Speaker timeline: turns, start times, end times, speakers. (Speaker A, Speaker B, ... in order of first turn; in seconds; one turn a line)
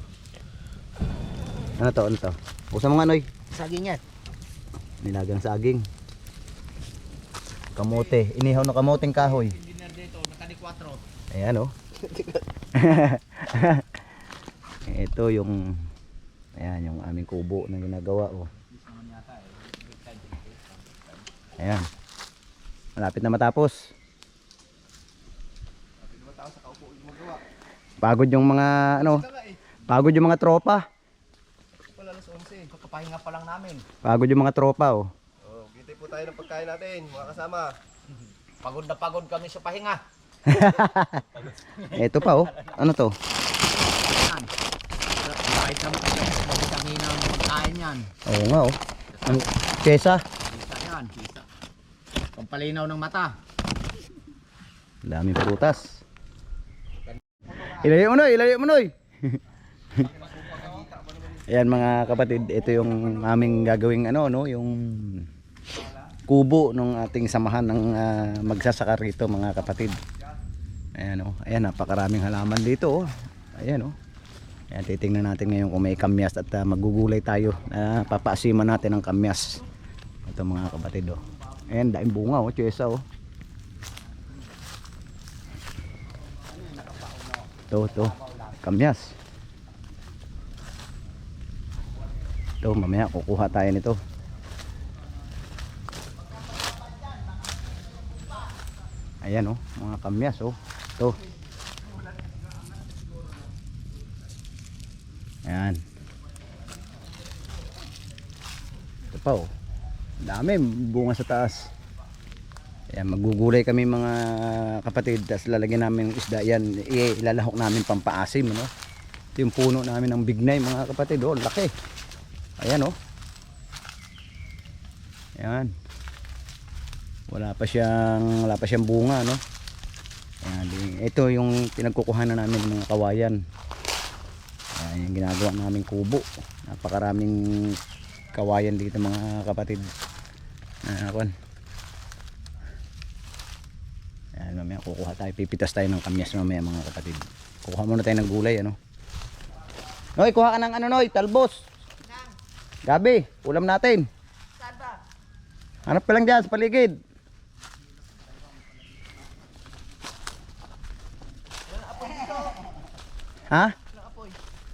Speaker A: 1.8-3.3
Speaker B: 3.5-4.0
Speaker A: 5.0-5.9
Speaker A: 7.7-9.6
Speaker B: 8.7-11.0
Speaker A: 11.3-11.7
Speaker A: 12.7-13.9
Speaker A: 14.9-15.8
Speaker A: 16.6-18.5
Speaker B: 18.8-21.0
Speaker A: 21.6-21.8
Speaker A: 23.0-23.9
Speaker C: 26.0-27.4
Speaker A: 28.0-29.3
Speaker B: 29.1-29.6
Speaker A: 29.9-30.8
Speaker B: 32.0-33.9
Speaker A: 34.0-35.1
Speaker C: 35.5-37.8
Speaker B: 38.6-40.0
Speaker A: 40.5-43.1
Speaker B: 43.6-44.5
Speaker B: 45.1-48.1
Speaker A: 48.2-50.2
Speaker B: 49.1-49.5
Speaker B: 50.4-51.5
Speaker B: 52.3-53.4
Speaker A: 55.0-56.0
Speaker A: 57.5-59.4
Speaker B: 60.1-60.9
Speaker C: 60.5-61.1
Speaker A: 61.3-65.3
Speaker A: 66.3-70.0
Speaker A: 71.0-74.0
Speaker A: 74.7-79.6
Speaker A: 80.3-83.0
Speaker B: 86.4-88.3
Speaker A: 87.7-89.2
Speaker A: 92.6-94.0
Speaker B: 96.4-98.5
Speaker A: 99.2-101.2
Speaker A: 105.5-105.8
Speaker A: 109.1-109.5
Speaker A: 110.2-111.7
Speaker A: 112.9-118.7
Speaker A: 119.4-121.7
Speaker A: 122.6-123.0
Speaker A: 125.4-125.7
Speaker A: 127.3-129.4
Speaker A: 130.4-133.4
Speaker A: 134.8-137.8
Speaker A: 138.3-139.9
Speaker A: 140.8-141.3
Speaker A: 144.3-148.8
Speaker A: 150.2-151.7
Speaker A: 152.9-154.0
Speaker B: 154.6-155.0
Speaker A: 155.8-156.9
Speaker B: 161.7-162.7
Speaker A: 163.5-163.8
Speaker B: 163.9-164.4